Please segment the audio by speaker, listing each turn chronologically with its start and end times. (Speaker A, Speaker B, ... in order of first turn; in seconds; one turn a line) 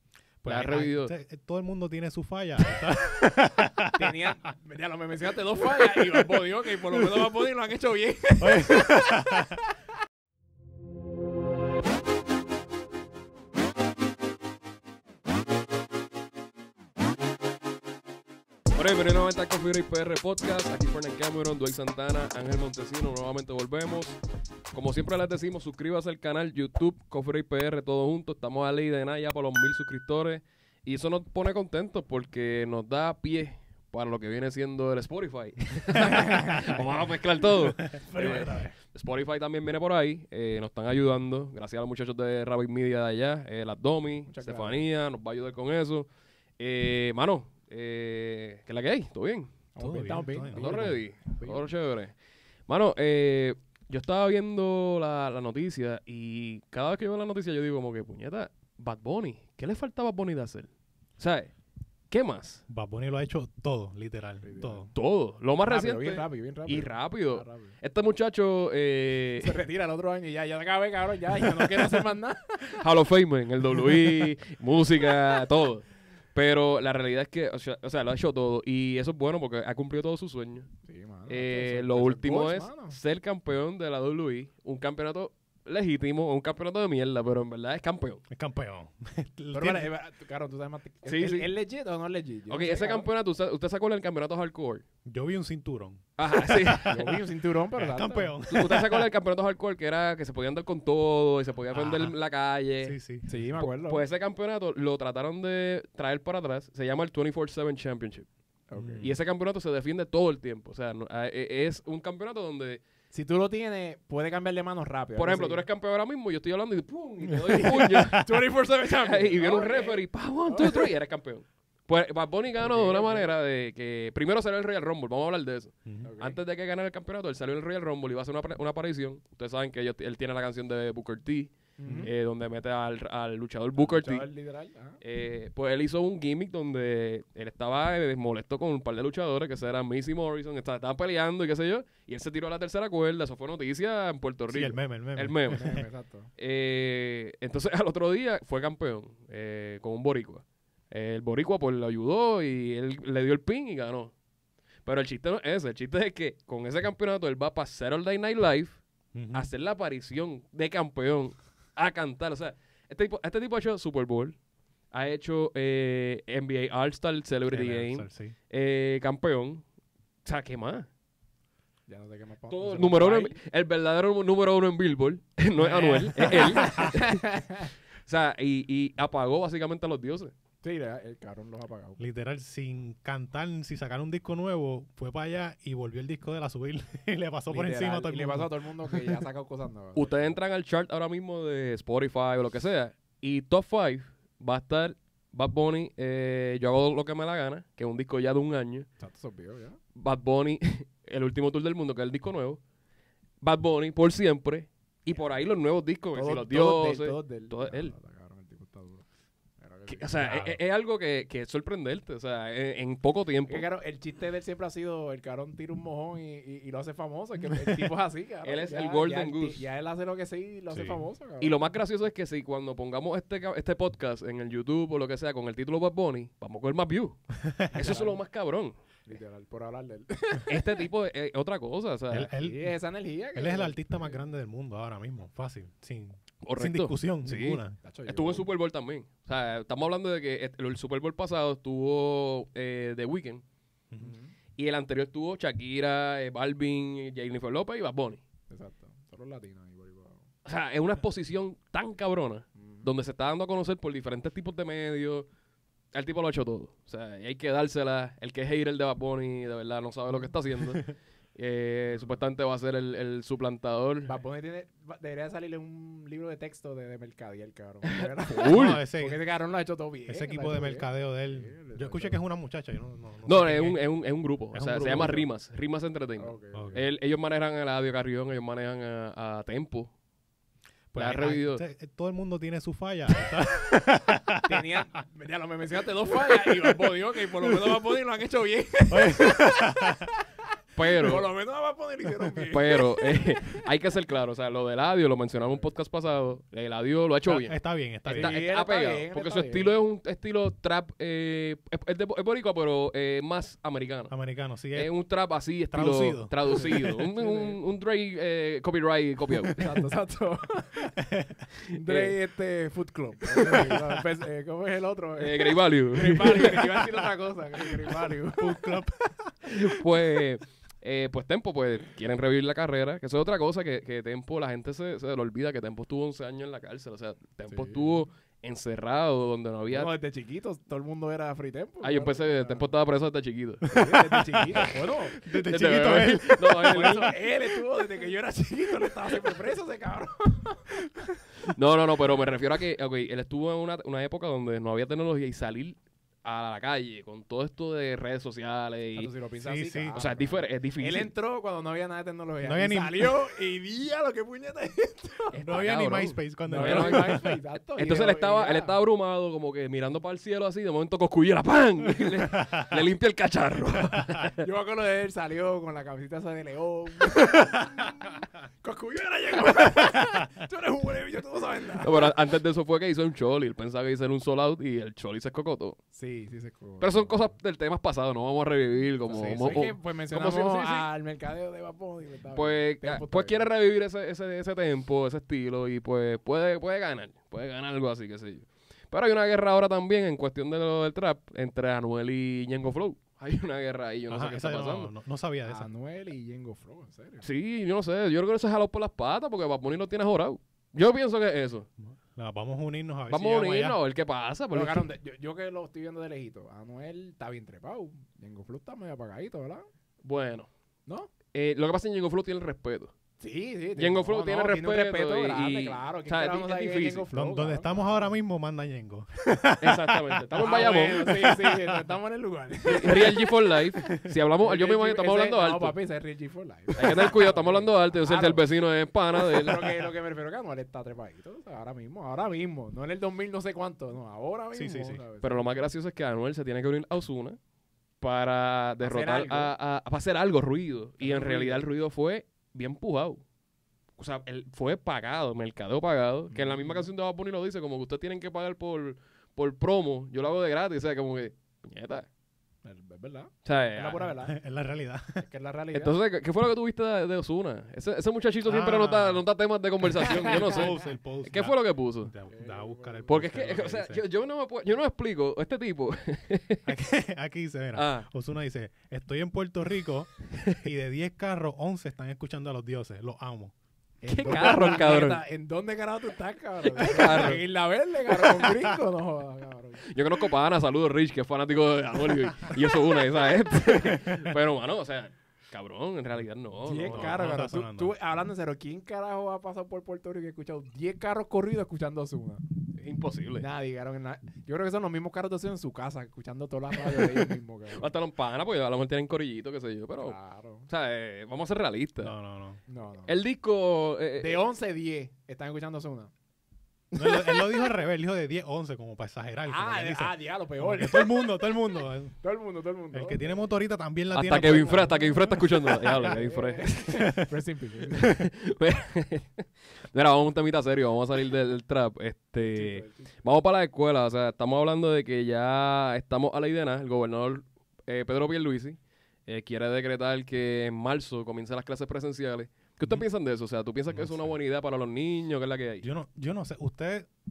Speaker A: 0.4-4.2
Speaker B: 0.5-1.1
Speaker C: 3.9-9.6
Speaker A: 8.4-9.6
Speaker B: 18.8-24.2
Speaker B: 24.7-49.5
Speaker A: 36.0-36.2
Speaker C: 36.0-36.8
Speaker A: 36.8-38.7
Speaker C: 38.0-38.7
Speaker C: 44.3-44.9
Speaker C: 49.8-51.7
Speaker A: 49.8-51.0
Speaker B: 50.5-52.1
Speaker B: 52.7-61.5
Speaker B: 62.1-62.6
Speaker A: 62.7-64.9
Speaker C: 64.4-64.9
Speaker B: 65.0-69.6
Speaker C: 65.7-67.8
Speaker C: 69.4-72.8
Speaker B: 72.8-80.7
Speaker C: 80.8-83.0
Speaker B: 81.3-88.2
Speaker A: 88.3-89.9
Speaker C: 89.5-93.1
Speaker B: 91.1-91.5
Speaker B: 92.5-94.8
Speaker A: 95.0-97.2
Speaker B: 96.2-97.2
Speaker C: 96.8-98.4
Speaker A: 97.8-99.1
Speaker B: 98.5-103.0
Speaker A: 101.7-102.2
Speaker A: 102.8-103.4
Speaker C: 103.3-104.0
Speaker B: 103.6-108.3
Speaker C: 108.7-109.1
Speaker A: 108.8-109.2
Speaker B: 109.0-112.8
Speaker C: 113.1-115.7
Speaker B: 115.2-118.3
Speaker A: 117.3-118.4
Speaker C: 117.6-120.9
Speaker B: 118.9-134.3
Speaker C: 122.6-123.3
Speaker C: 126.0-126.4
Speaker C: 131.8-132.1
Speaker C: 133.8-135.0
Speaker B: 135.0-145.7
Speaker A: 144.5-145.8
Speaker C: 145.5-146.3
Speaker B: 146.4-154.1
Speaker B: 154.8-158.8
Speaker A: 159.1-159.5
Speaker B: 159.3-164.4
Speaker B: 164.9-169.6
Speaker A: 167.5-168.3
Speaker B: 170.2-170.9
Speaker C: 171.9-173.4
Speaker B: 172.5-177.4
Speaker A: 175.6-177.0
Speaker C: 176.2-177.7
Speaker B: 178.1-180.3
Speaker C: 180.6-182.0
Speaker A: 182.0-189.2
Speaker C: 187.5-190.3
Speaker B: 190.0-198.9
Speaker C: 199.0-199.8
Speaker B: 199.9-202.6
Speaker B: 203.4-207.9
Speaker C: 206.1-209.1
Speaker C: 209.6-210.3
Speaker B: 209.9-213.7
Speaker A: 210.2-210.6
Speaker C: 213.5-221.6
Speaker B: 218.4-219.7
Speaker A: 220.7-221.0
Speaker B: 221.4-228.8
Speaker A: 227.4-227.8
Speaker C: 227.8-228.2
Speaker C: 229.1-230.9
Speaker B: 230.5-232.3
Speaker A: 232.1-232.7
Speaker C: 232.2-234.2
Speaker A: 233.3-237.8
Speaker B: 236.4-243.4
Speaker C: 237.8-238.5
Speaker C: 244.0-244.3
Speaker B: 244.6-248.2
Speaker C: 248.5-250.3
Speaker B: 250.4-255.3
Speaker C: 252.6-252.9
Speaker B: 255.9-264.1
Speaker C: 261.9-262.2
Speaker C: 264.1-272.2
Speaker B: 267.9-268.8
Speaker A: 268.5-269.2
Speaker A: 270.1-273.8
Speaker B: 273.3-279.9
Speaker A: 274.5-275.2
Speaker C: 274.8-275.2
Speaker C: 276.2-276.8
Speaker A: 276.5-276.8
Speaker A: 280.9-284.6
Speaker B: 280.9-281.6
Speaker C: 284.4-290.2
Speaker A: 286.3-286.7
Speaker A: 288.9-290.1
Speaker B: 290.8-291.3
Speaker C: 290.9-293.6
Speaker B: 292.5-297.6
Speaker A: 297.3-298.4
Speaker C: 298.1-299.7
Speaker B: 298.1-304.1
Speaker A: 304.1-304.9
Speaker B: 304.7-309.6
Speaker A: 305.7-307.0
Speaker C: 306.4-307.6
Speaker C: 309.5-311.0
Speaker A: 311.0-311.4
Speaker B: 311.7-312.1
Speaker C: 311.7-318.7
Speaker B: 313.3-313.7
Speaker B: 315.2-316.8
Speaker A: 318.3-319.5
Speaker B: 319.5-329.9
Speaker C: 327.5-328.0
Speaker C: 329.7-332.7
Speaker B: 331.8-333.8
Speaker A: 333.7-337.1
Speaker C: 333.7-335.2
Speaker B: 335.3-337.1
Speaker C: 336.6-341.2
Speaker B: 341.5-349.1
Speaker C: 348.9-355.4
Speaker A: 349.4-350.0
Speaker B: 349.9-351.1
Speaker A: 352.4-353.1
Speaker B: 355.3-357.2
Speaker A: 355.4-357.4
Speaker C: 356.4-358.8
Speaker B: 357.8-364.4
Speaker A: 362.0-362.8
Speaker A: 363.8-364.2
Speaker C: 364.4-372.1
Speaker B: 371.8-375.8
Speaker C: 375.9-377.3
Speaker B: 376.8-380.9
Speaker C: 379.1-383.5
Speaker A: 379.1-379.7
Speaker B: 382.3-394.9
Speaker A: 394.1-395.7
Speaker C: 395.4-397.3
Speaker B: 397.2-401.7
Speaker A: 401.8-403.8
Speaker B: 403.1-404.9
Speaker C: 404.5-409.7
Speaker B: 410.0-410.5
Speaker C: 410.9-411.1
Speaker B: 411.3-412.9
Speaker C: 413.2-418.1
Speaker B: 413.8-417.1
Speaker A: 417.1-420.2
Speaker B: 419.6-421.3
Speaker C: 420.4-428.5
Speaker B: 422.7-425.8
Speaker B: 426.8-429.8
Speaker C: 429.2-435.6
Speaker A: 434.5-435.0
Speaker B: 435.2-437.4
Speaker B: 438.0-443.2
Speaker C: 438.8-439.5
Speaker C: 441.0-441.6
Speaker B: 444.0-452.1
Speaker C: 446.3-446.9
Speaker C: 452.6-454.4
Speaker B: 453.4-454.1
Speaker A: 454.2-455.3
Speaker C: 455.2-456.0
Speaker B: 455.7-460.8
Speaker A: 458.4-459.2
Speaker A: 459.9-464.0
Speaker C: 460.1-460.7
Speaker B: 461.3-462.1
Speaker C: 462.3-463.2
Speaker B: 463.1-466.7
Speaker A: 466.7-473.5
Speaker B: 467.8-468.1
Speaker B: 470.4-470.6
Speaker C: 474.0-479.9
Speaker B: 474.1-475.2
Speaker A: 474.2-474.9
Speaker B: 476.7-477.4
Speaker B: 479.9-487.2
Speaker A: 484.0-484.3
Speaker C: 486.7-492.4
Speaker A: 486.8-487.9
Speaker B: 492.8-493.5
Speaker C: 493.4-497.9
Speaker B: 496.8-500.2
Speaker C: 500.0-500.7
Speaker B: 500.7-502.2
Speaker A: 502.0-502.6
Speaker C: 502.7-503.2
Speaker B: 503.1-504.4
Speaker C: 504.2-506.1
Speaker A: 506.9-512.2
Speaker C: 506.9-507.8
Speaker C: 509.5-511.3
Speaker C: 512.2-513.5
Speaker A: 512.9-516.1
Speaker B: 514.1-517.1
Speaker C: 514.3-518.2
Speaker B: 518.0-535.9
Speaker C: 522.5-523.1
Speaker A: 533.9-534.4
Speaker A: 535.8-537.1